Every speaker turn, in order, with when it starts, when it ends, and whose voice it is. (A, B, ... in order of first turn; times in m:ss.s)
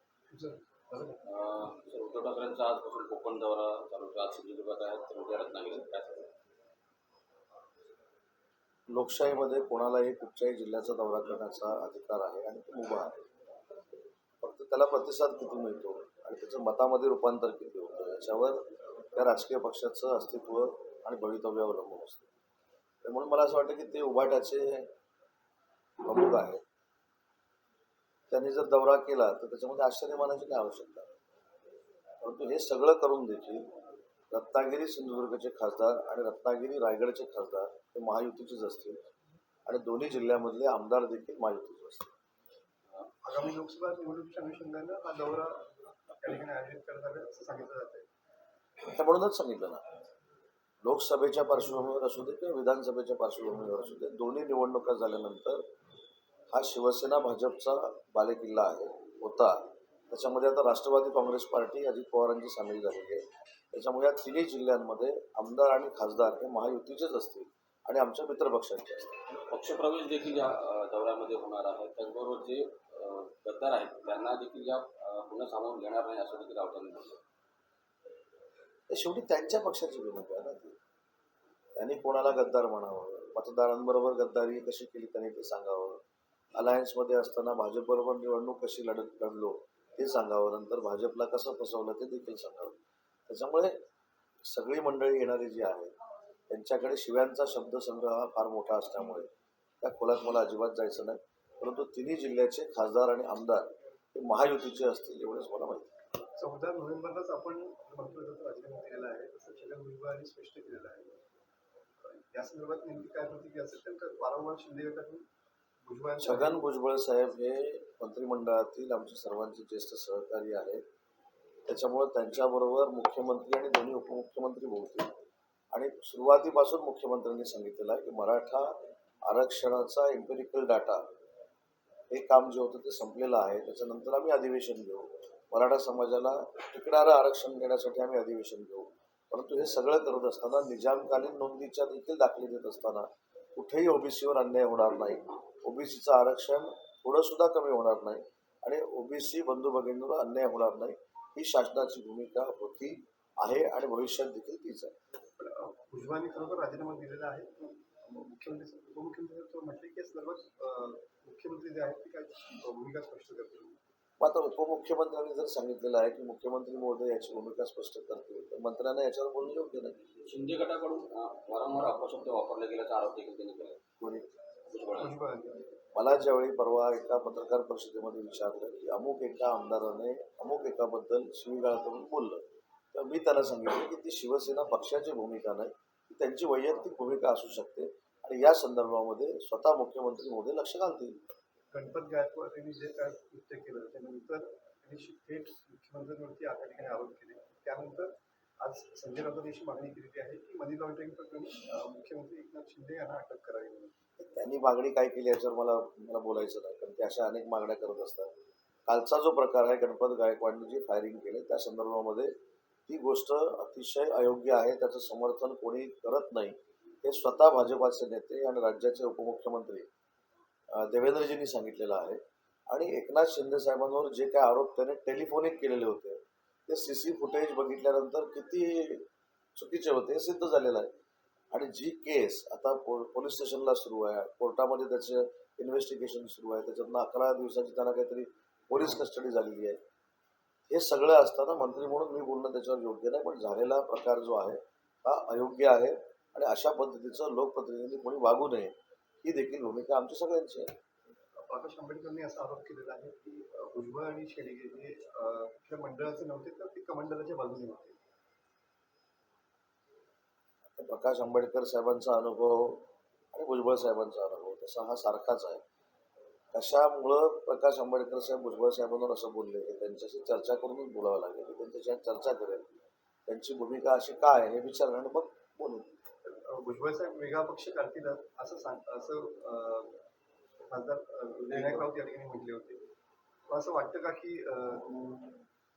0:00.3-0:01.2 A
0:01.2-0:06.3 B
0:08.9-0:13.1 C
0:14.4-0:22.3 C
0:23.0-0:24.9 C
0:26.0-0:26.6 C
0:28.3-0:31.1 C
0:32.2-0:33.7 C
0:34.3-0:39.0 C
0:39.7-0:42.1 C
0:43.2-0:48.1 A
0:48.8-0:49.8 C
0:50.8-0:55.6 C
0:56.5-1:09.2 C
1:09.5-1:17.2 B
1:18.9-1:20.8 C
1:21.8-1:26.0 C
1:26.5-1:32.8 C
1:33.3-1:33.8 C
1:34.4-1:35.9 C
1:36.5-1:39.3 C
1:39.8-1:45.9 C
1:46.4-1:51.2 A
1:52.0-1:55.3 A
1:55.8-1:56.7 A
1:56.2-2:00.8 C
2:01.7-2:05.1 C
2:05.7-2:11.0 C
2:12.1-2:34.9 C
2:35.4-2:43.8 A
2:44.2-2:50.0 C
2:50.2-2:53.8 B
2:54.0-2:54.3 C
2:54.7-2:55.1 B
2:55.0-2:55.8 A
2:55.9-3:11.2 C
3:11.7-3:23.9 A
3:24.2-3:28.3 C
3:28.9-3:32.3 C
3:32.9-3:39.9 C
3:40.7-3:50.9 C
3:51.5-3:59.8 C
4:00.7-4:10.7 C
4:11.4-4:18.0 A
4:20.8-4:25.6 C
4:26.5-4:32.7 C
4:33.3-4:35.9 C
4:36.2-4:40.0 A
4:40.7-4:42.9 A
4:43.5-4:45.4 A